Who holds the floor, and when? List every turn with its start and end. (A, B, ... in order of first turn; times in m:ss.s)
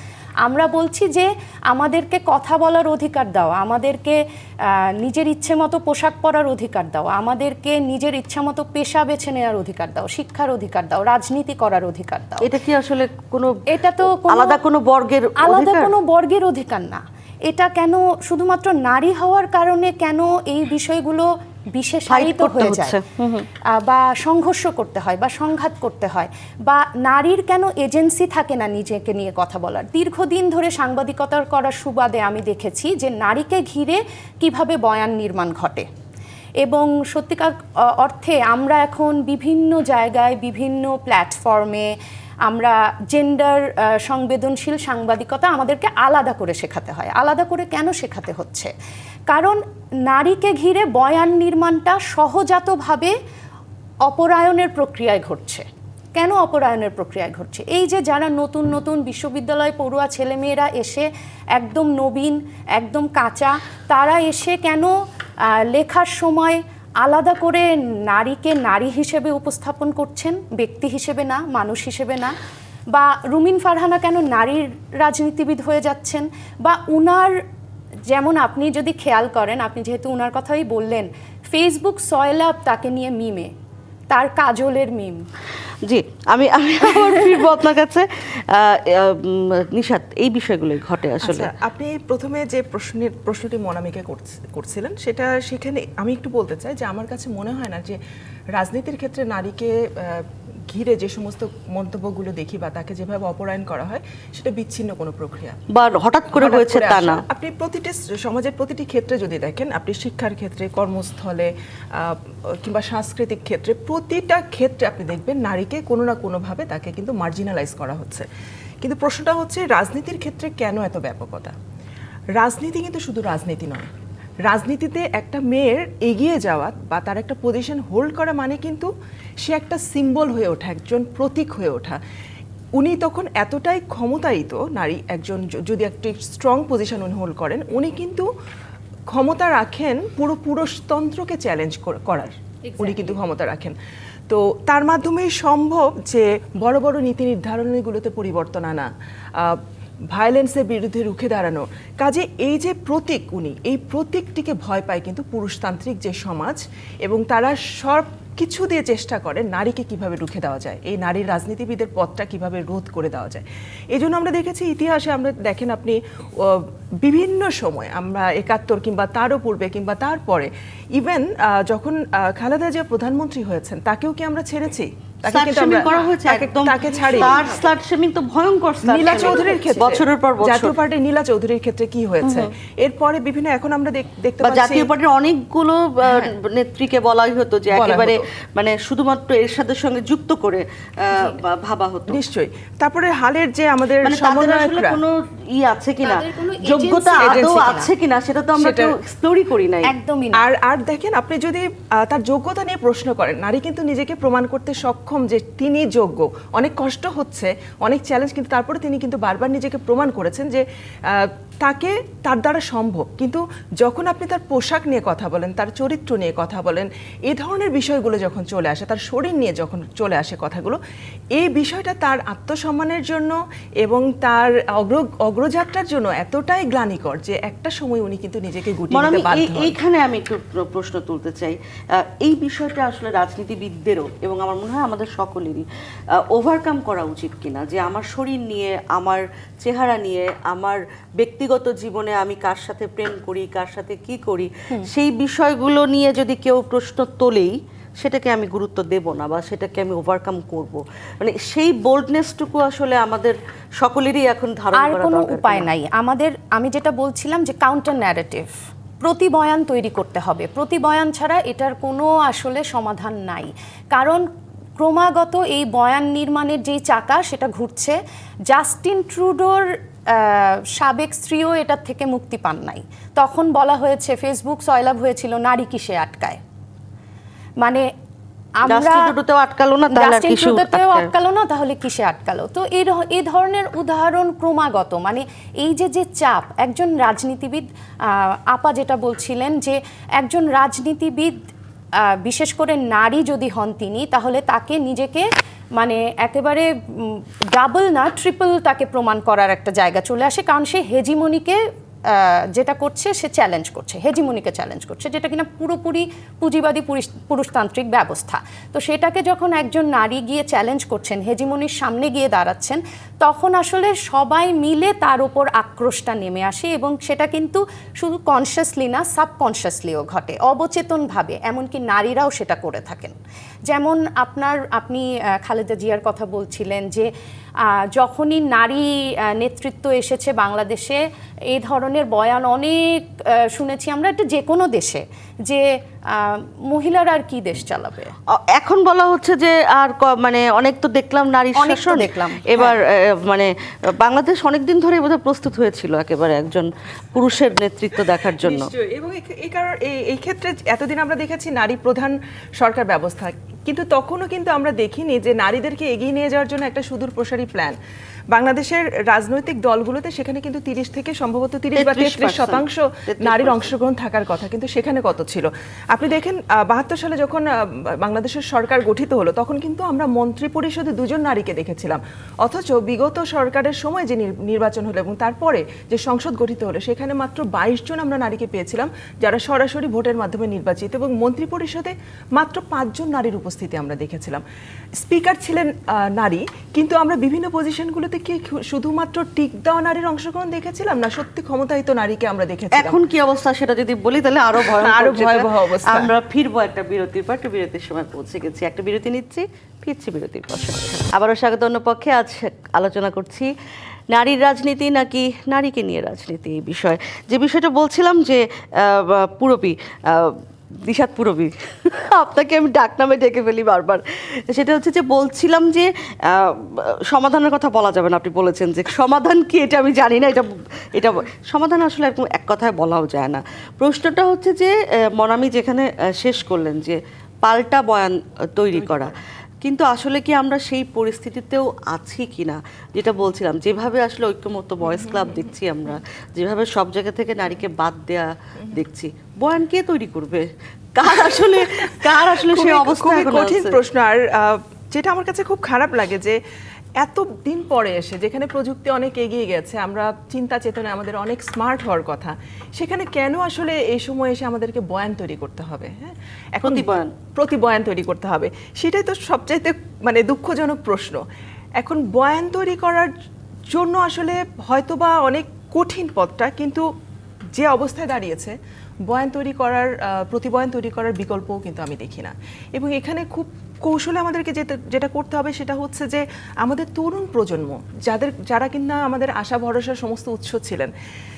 0:00.4-0:12.5 A
0:12.4-0:15.9 B
0:13.7-0:14.6 A
0:15.4-0:23.0 A
0:22.1-0:23.5 B
0:23.7-0:35.9 A
0:36.6-0:41.9 A
0:42.5-0:48.7 A
0:49.3-0:53.1 A
0:54.1-1:04.9 A
1:05.5-1:12.4 A
1:12.9-1:17.3 A
1:18.1-1:23.5 A
1:24.1-1:25.3 A
1:25.9-1:31.5 B
1:27.1-1:27.4 A
1:31.2-1:38.0 C
1:38.6-1:45.6 C
1:45.7-1:47.2 B
1:46.3-1:58.3 C
1:58.8-2:01.5 C
2:02.4-2:03.9 C
2:04.5-2:08.9 C
2:09.4-2:12.0 C
2:12.8-2:18.3 C
2:19.1-2:23.8 C
2:24.3-2:29.6 C
2:30.1-2:57.5 C
2:55.3-3:00.8 B
2:58.8-3:04.9 C
3:02.2-3:02.5 B
3:04.4-3:12.2 B
3:06.0-3:06.4 C
3:07.7-3:08.2 C
3:12.1-3:15.0 C
3:14.0-3:19.9 B
3:16.0-3:17.9 A
3:17.2-3:17.7 C
3:18.6-3:19.0 C
3:19.9-3:20.4 A
3:20.4-3:40.8 C
3:41.4-3:49.8 C
3:48.9-3:55.7 B
3:56.3-4:15.7 B
4:14.8-4:24.2 A
4:24.8-4:36.4 A
4:38.6-4:39.0 A
4:38.7-4:41.1 B
4:39.9-4:51.3 A
4:52.0-5:23.2 A
5:23.7-5:27.1 A
5:27.6-5:31.0 A
5:31.5-5:38.1 A
5:38.3-5:48.7 B
5:41.6-5:42.8 A
5:48.4-5:57.8 C
5:58.3-6:24.4 C
6:01.7-6:03.7 B
6:25.0-6:33.0 C
6:32.7-6:43.5 B
6:34.6-6:36.1 C
6:44.1-7:23.8 B
7:14.8-7:15.5 C
7:21.3-7:26.4 C
7:27.0-7:41.2 C
7:36.6-7:37.1 B
7:41.8-7:43.1 C
7:43.7-7:46.9 C
7:47.6-7:48.6 C
7:49.1-8:00.9 C